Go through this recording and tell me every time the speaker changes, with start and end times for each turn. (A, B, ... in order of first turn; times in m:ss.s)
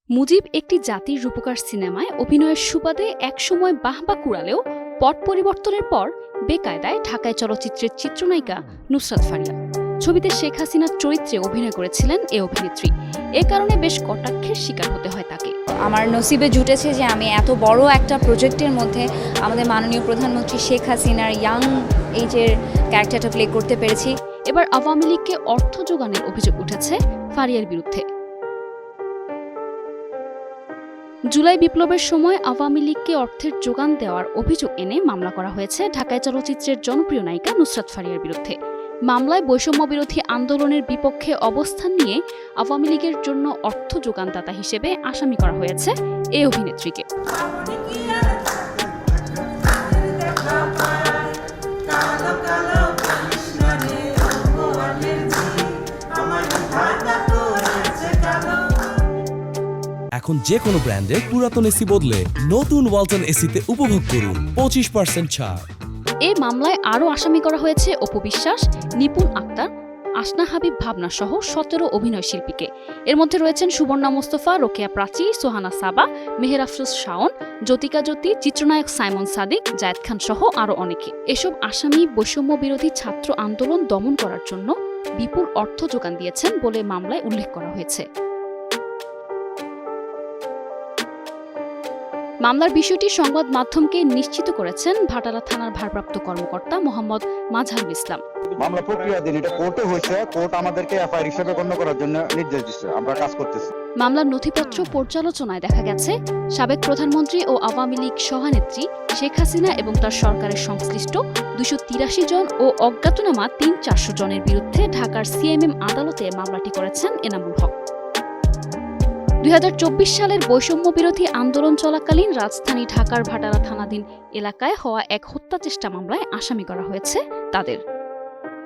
0:00.2-0:15.5 A
0:15.9-0:21.7 B
0:22.2-0:24.1 B
0:24.5-0:28.0 A
0:31.3-0:38.6 A
0:39.1-0:47.0 A
1:00.2-1:05.6 C
1:06.3-1:09.7 A
1:10.2-1:28.1 A
1:32.4-1:38.2 A
1:38.6-1:43.7 D
1:44.0-1:57.8 A
1:59.4-2:07.8 A